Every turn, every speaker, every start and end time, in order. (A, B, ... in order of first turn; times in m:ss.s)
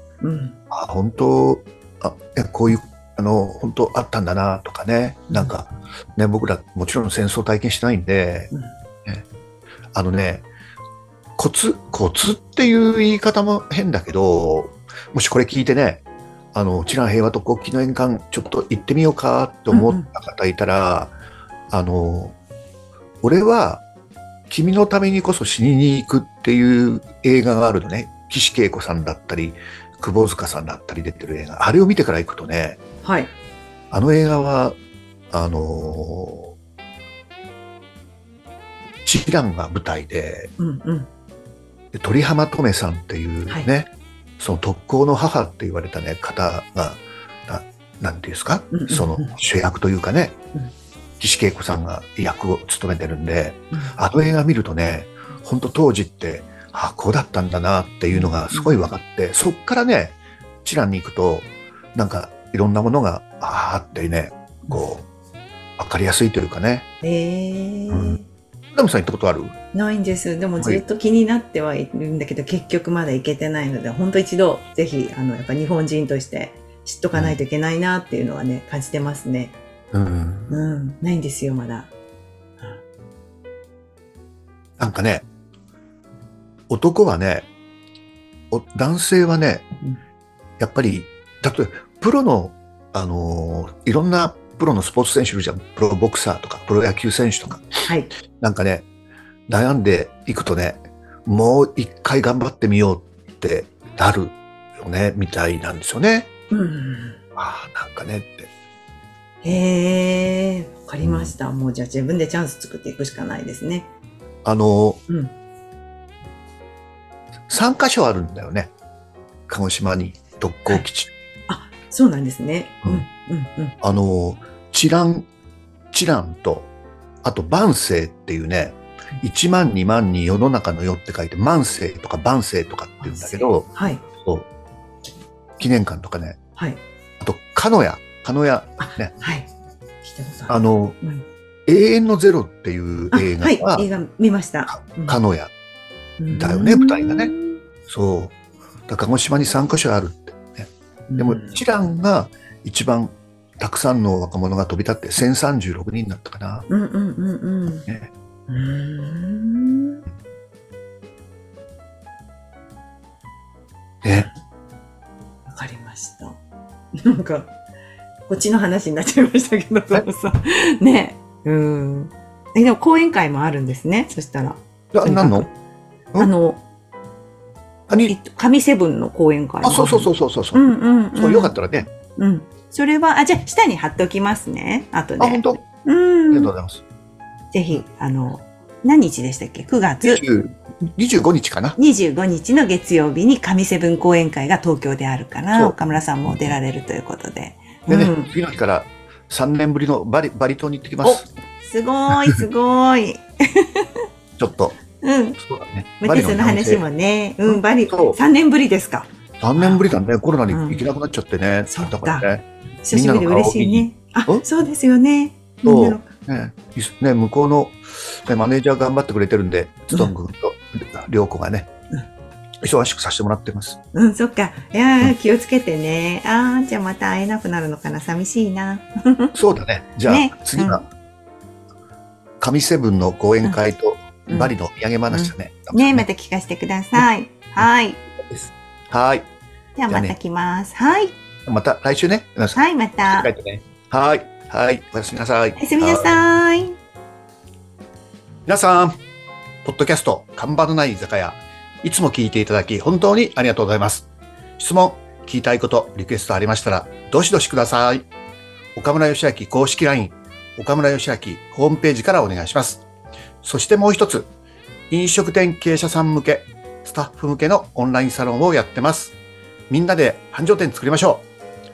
0:00.2-0:00.6 A
0:00.7-0:08.5 B
0:05.3-0:05.5 A
0:09.9-0:10.4 B
0:11.4-0:21.1 B
0:19.7-0:20.0 A
0:21.7-0:22.4 B
0:23.2-0:23.8 B
0:24.5-0:32.8 B
0:33.0-0:33.3 A
0:33.9-0:34.8 B
0:35.3-0:36.5 B
0:39.0-0:40.5 B
0:40.6-0:41.1 A
0:41.9-0:43.9 B
0:44.4-0:50.4 B
0:48.7-0:49.3 A
0:51.2-1:05.0 B
0:58.1-0:58.8 A
1:05.8-1:06.8 B
1:07.0-1:08.2 A
1:07.9-1:08.2 B
1:08.7-1:09.5 B
1:09.7-1:19.6 A
1:17.1-1:17.4 B
1:19.9-1:20.5 B
1:20.5-1:21.9 A
1:24.8-1:25.2 B
1:26.7-1:27.5 B
1:28.5-1:29.6 B
1:30.6-1:37.8 B
1:38.3-1:38.8 B
1:39.5-1:46.3 B
1:46.5-1:47.2 A
1:47.4-1:48.5 B
1:49.4-1:53.9 A
1:51.0-1:51.3 B
1:54.4-1:55.0 B
1:55.1-1:55.3 A
1:57.5-1:58.7 B
1:59.5-2:01.1 B
2:01.5-2:03.7 A
2:03.8-2:05.3 B
2:05.9-2:06.7 B
2:07.2-2:13.7 B
2:13.0-2:14.0 A
2:14.2-2:14.4 B
2:15.6-2:16.4 B
2:16.6-2:16.8 A
2:17.2-2:19.1 B
2:18.8-2:19.5 A
2:20.0-2:21.2 A
2:20.5-2:21.0 B
2:21.7-2:23.9 B
2:23.1-2:25.2 A
2:24.7-2:25.5 B
2:26.2-2:27.6 A
2:26.3-2:27.3 B
2:27.9-2:28.3 B
2:28.9-2:36.7 B
2:31.1-2:31.6 A
2:36.7-2:37.8 A
2:38.5-2:40.0 A
2:44.0-2:44.3 B
2:45.5-2:46.4 A
2:47.0-2:47.5 A
2:48.3-2:55.5 A
2:54.9-2:55.5 B
2:56.2-2:56.6 A
2:57.9-2:58.1 B
2:58.1-3:01.5 A
2:59.6-3:01.9 B
3:02.2-3:06.5 A
3:05.2-3:05.6 B
3:06.3-3:06.8 B
3:07.5-3:10.2 A
3:10.0-3:11.8 B
3:11.8-3:18.3 A
3:17.9-3:21.3 B
3:21.0-3:23.9 A
3:24.4-3:24.8 B
3:25.0-3:25.4 A
3:25.4-3:26.8 B
3:26.0-3:29.8 A
3:27.4-3:28.2 B
3:29.4-3:34.4 B
3:30.5-3:30.8 A
3:31.7-3:32.3 A
3:32.8-3:36.0 A
3:35.6-3:41.7 B
3:39.9-3:40.2 A
3:42.6-3:43.8 B
3:43.9-3:49.3 A
3:49.3-3:50.8 B
3:50.0-3:50.8 A
3:52.4-3:56.0 B
3:54.3-3:54.5 A
3:55.1-3:58.0 A
3:58.2-3:59.3 B
3:59.8-4:01.1 A
3:59.9-4:00.2 B
4:01.4-4:06.2 B
4:02.5-4:03.3 A
4:05.6-4:06.8 A
4:08.4-4:09.0 B
4:09.6-4:14.1 B
4:14.6-4:18.1 B
4:18.8-4:22.8 B
4:23.4-4:24.3 B
4:24.9-4:29.2 B
4:29.7-4:31.2 B